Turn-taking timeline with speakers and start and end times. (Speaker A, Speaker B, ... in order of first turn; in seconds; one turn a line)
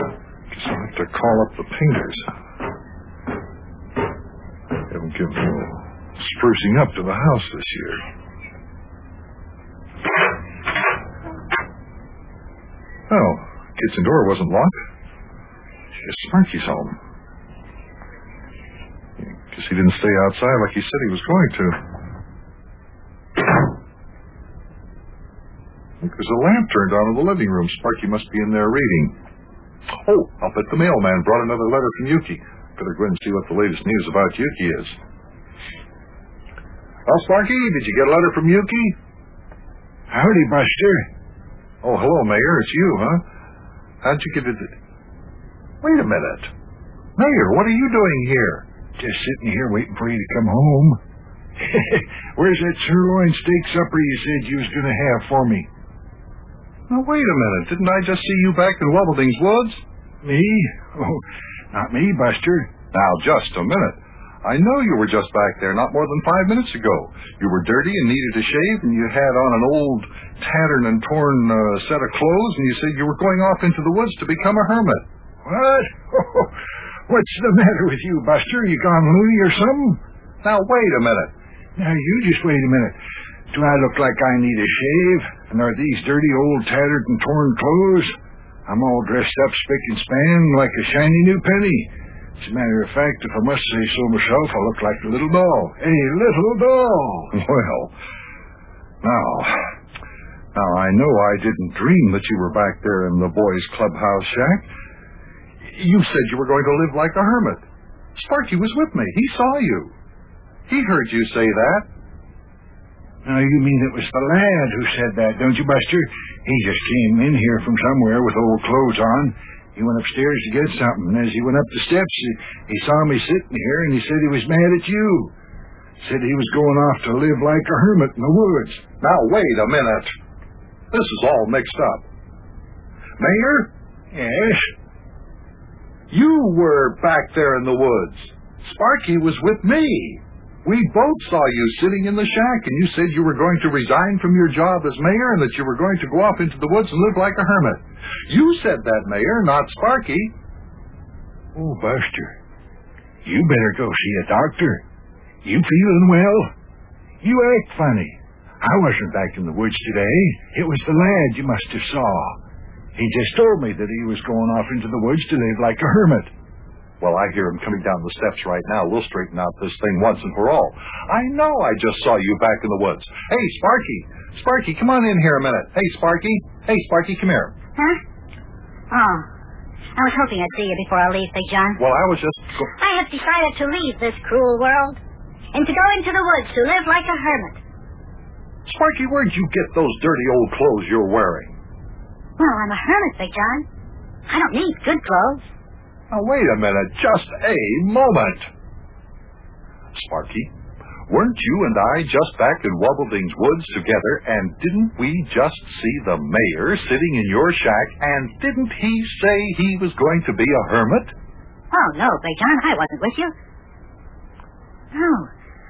Speaker A: 0.5-2.3
Speaker A: 4.9-8.0
Speaker A: 13.1-14.8
Speaker A: 16.0-17.0
Speaker A: 19.2-21.8
Speaker A: 26.0-29.1
Speaker A: 30.0-35.0
Speaker A: 37.0-39.0
Speaker B: 40.1-41.1
Speaker A: 41.8-43.2
Speaker A: 44.0-44.7
Speaker A: 45.8-46.5
Speaker A: 47.2-48.6
Speaker B: 49.0-51.0
Speaker B: 51.6-55.7
Speaker A: 56.9-59.8
Speaker B: 60.2-62.7
Speaker A: 62.9-75.0
Speaker B: 75.4-76.5
Speaker B: 77.1-80.0
Speaker A: 80.4-81.3
Speaker B: 81.8-83.0
Speaker B: 83.5-88.1
Speaker B: 88.7-97.3
Speaker A: 97.3-97.9
Speaker A: 99.0-99.7
Speaker A: 100.5-104.7
Speaker A: 105.6-109.9
Speaker A: 110.7-111.9
Speaker B: 113.2-125.3
Speaker B: 126.0-128.8
Speaker A: 129.0-130.1
Speaker A: 130.9-132.1
Speaker A: 133.2-133.7
Speaker B: 134.1-134.7
Speaker A: 136.1-150.3
Speaker B: 151.5-152.4
Speaker B: 153.2-154.8
Speaker B: 155.4-156.5
Speaker B: 157.2-162.4
Speaker B: 162.9-166.3
Speaker A: 167.0-177.5
Speaker C: 178.9-179.2
Speaker C: 179.9-181.8
Speaker A: 181.8-182.7
Speaker C: 182.8-185.0
Speaker C: 185.5-187.6
Speaker A: 188.7-191.6
Speaker C: 192.4-193.6
Speaker C: 194.3-195.5
Speaker A: 196.1-198.5
Speaker A: 199.9-200.5
Speaker A: 201.1-211.1
Speaker C: 211.7-213.3
Speaker C: 214.9-215.3